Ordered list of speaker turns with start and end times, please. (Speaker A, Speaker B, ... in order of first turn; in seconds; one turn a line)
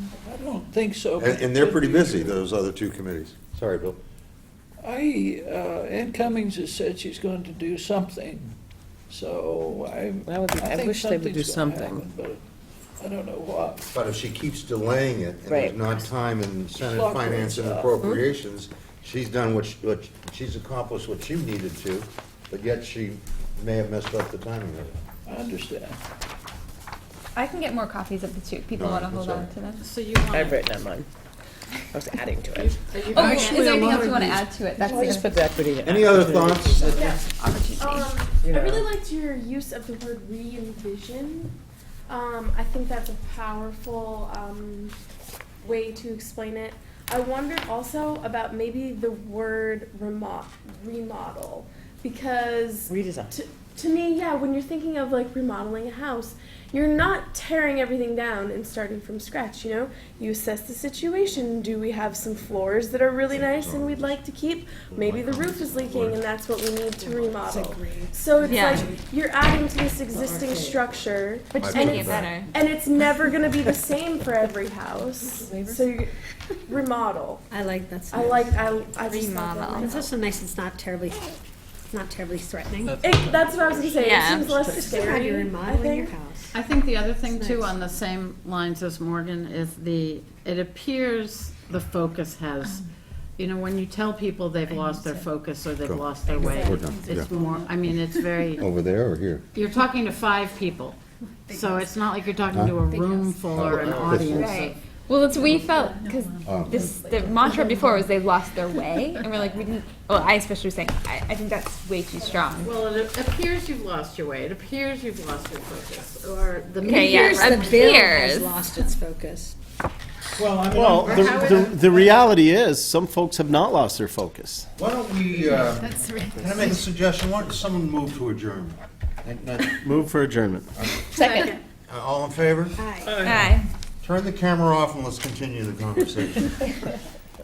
Speaker A: 0.2-2.4
Speaker B: 1.2-4.0
Speaker A: 4.8-8.5
Speaker A: 9.1-12.4
Speaker C: 10.3-12.0
Speaker A: 13.0-13.9
Speaker B: 13.9-25.0
Speaker C: 15.5-15.9
Speaker A: 16.8-18.2
Speaker A: 25.3-26.0
Speaker D: 27.4-29.9
Speaker B: 28.7-29.5
Speaker E: 29.8-30.6
Speaker C: 30.3-31.1
Speaker C: 31.9-32.7
Speaker E: 32.5-34.4
Speaker D: 33.1-35.4
Speaker A: 33.1-34.4
Speaker C: 34.8-37.1
Speaker B: 35.8-36.9
Speaker E: 36.9-37.1
Speaker F: 36.9-37.2
Speaker D: 37.2-38.1
Speaker F: 37.7-41.5
Speaker C: 38.4-38.8
Speaker F: 42.1-45.0
Speaker F: 45.6-76.1
Speaker C: 52.9-53.3
Speaker B: 63.3-64.2
Speaker B: 64.9-66.2
Speaker G: 67.4-69.0
Speaker D: 68.5-68.9
Speaker E: 70.1-70.8
Speaker D: 71.5-72.5
Speaker B: 71.6-72.4
Speaker F: 76.7-77.5
Speaker G: 77.5-79.0
Speaker F: 78.1-80.1
Speaker D: 79.0-80.0
Speaker G: 79.8-81.4
Speaker G: 81.9-83.3
Speaker F: 83.0-86.1
Speaker D: 84.0-84.5
Speaker G: 84.5-86.6
Speaker E: 86.5-92.9
Speaker G: 87.2-87.9
Speaker E: 93.4-98.7
Speaker B: 95.8-97.3
Speaker B: 98.6-99.4
Speaker E: 99.5-101.0
Speaker E: 101.5-104.8
Speaker B: 102.5-102.8
Speaker B: 103.5-104.6
Speaker D: 104.2-112.8
Speaker B: 106.5-106.9
Speaker E: 112.6-118.0
Speaker D: 116.8-118.5
Speaker G: 116.8-119.5
Speaker B: 120.3-122.0
Speaker H: 120.7-124.7
Speaker E: 121.0-122.1
Speaker B: 124.8-129.9
Speaker E: 125.4-126.7
Speaker H: 129.8-130.7
Speaker B: 130.8-131.1
Speaker E: 131.2-131.5
Speaker B: 131.9-132.9
Speaker G: 132.8-133.3
Speaker C: 133.1-133.4
Speaker D: 133.2-133.7
Speaker B: 134.0-136.8